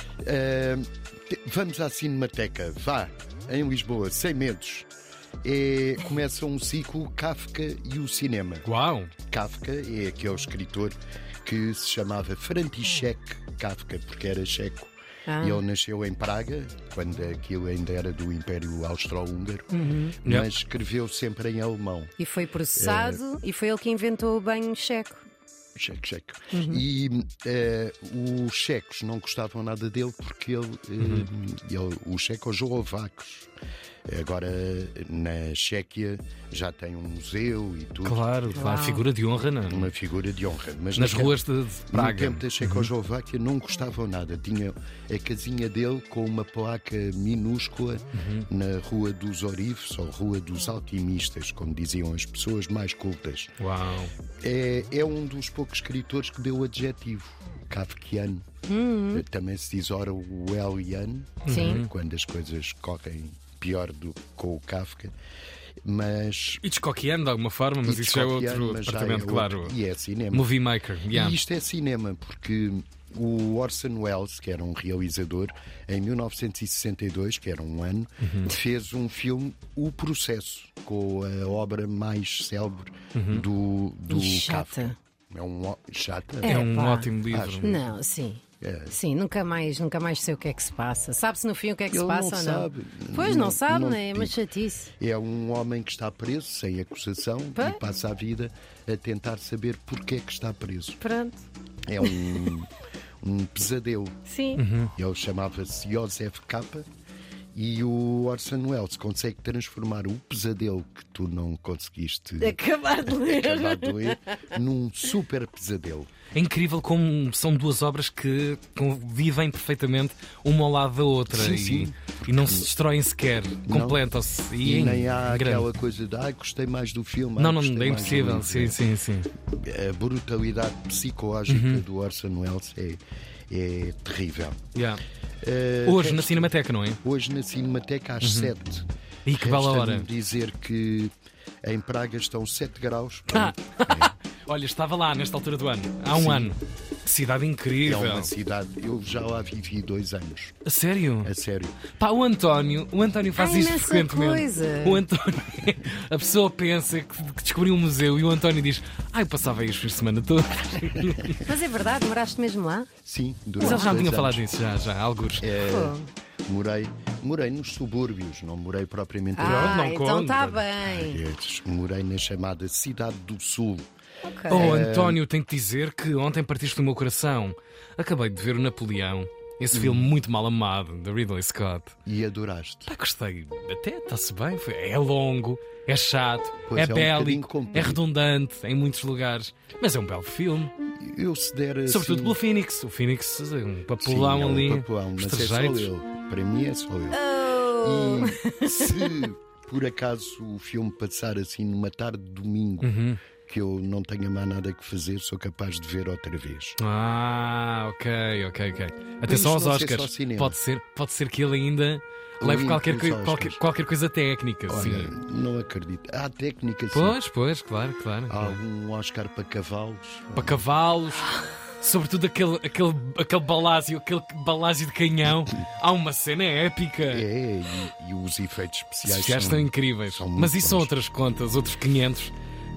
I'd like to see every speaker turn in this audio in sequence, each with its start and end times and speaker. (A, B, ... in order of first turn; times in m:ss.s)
0:00.2-0:04.9 A
0:05.4-0:08.7 A
0:08.6-0:09.1 B
0:09.2-0:19.7 A
0:15.3-0:15.6 C
0:19.7-0:20.2 C
0:20.2-0:22.1 A
0:22.2-0:25.2 C
0:22.8-0:23.2 A
0:25.8-0:33.5 A
0:26.5-0:26.8 C
0:31.0-0:31.3 B
0:34.1-0:38.2 A
0:38.0-0:39.9 B
0:38.5-0:39.1 C
0:39.7-0:41.4 A
0:41.0-0:42.9 B
0:41.9-0:53.6 A
0:48.1-0:48.5 B
0:53.6-0:54.1 B
0:54.4-0:58.5 A
0:58.7-0:59.2 C
0:59.1-1:05.1 A
1:01.4-1:01.9 B
1:01.5-1:01.8 C
1:05.8-1:06.6 A
1:06.6-1:09.8 B
1:07.8-1:10.5 A
1:10.3-1:11.4 B
1:11.1-1:26.6 A
1:18.2-1:18.5 B
1:23.2-1:23.4 B
1:24.1-1:25.0 C
1:26.4-1:27.7 B
1:26.4-1:34.9 C
1:27.3-1:27.8 A
1:28.6-1:29.0 A
1:31.9-1:34.4 A
1:35.0-1:41.0 A
1:41.0-1:41.4 C
1:41.9-1:42.7 A
1:43.2-1:44.2 A
1:44.3-1:44.6 C
1:44.6-1:44.9 B
1:44.9-1:46.9 A
1:47.5-1:56.1 A
1:52.4-1:54.3 C
1:56.3-2:05.7 B
2:01.3-2:02.7 A
2:03.7-2:04.0 A
2:04.6-2:08.8 A
2:07.4-2:09.3 B
2:09.4-2:14.6 A
2:11.5-2:11.8 B
2:14.8-2:15.0 B
2:15.4-2:24.1 A
2:15.9-2:17.0 B
2:18.2-2:18.5 B
2:19.3-2:20.1 B
2:23.3-2:28.3 B
2:26.1-2:26.6 A
2:27.8-2:30.6 A
2:30.6-2:31.3 B
2:31.2-2:31.9 A
2:31.9-2:41.4 B
2:33.4-2:35.0 C
2:41.4-2:42.9 C
2:43.0-2:44.4 A
2:43.6-2:45.5 B
2:43.6-2:44.0 C
2:45.4-2:49.9 A
2:45.6-2:46.1 C
2:49.4-2:51.2 C
2:49.4-2:50.7 B
2:50.8-2:53.9 A
2:54.2-2:54.8 C
2:54.5-2:55.2 A
2:54.5-3:01.9 B
2:59.7-3:00.1 A
3:02.1-3:02.9 A
3:02.9-3:10.7 B
3:06.7-3:08.0 A
3:10.9-3:12.4 A
3:11.9-3:15.9 B
3:14.0-3:26.8 A
3:17.1-3:19.2 C
3:22.8-3:23.2 B
3:26.8-3:35.2 B
3:29.3-3:30.6 A
3:32.4-3:33.6 A
3:34.7-3:37.2 A
3:36.9-3:38.6 B
3:38.3-3:40.6 A
3:40.4-3:47.2 B
3:47.1-3:50.9 A
3:49.0-3:52.3 B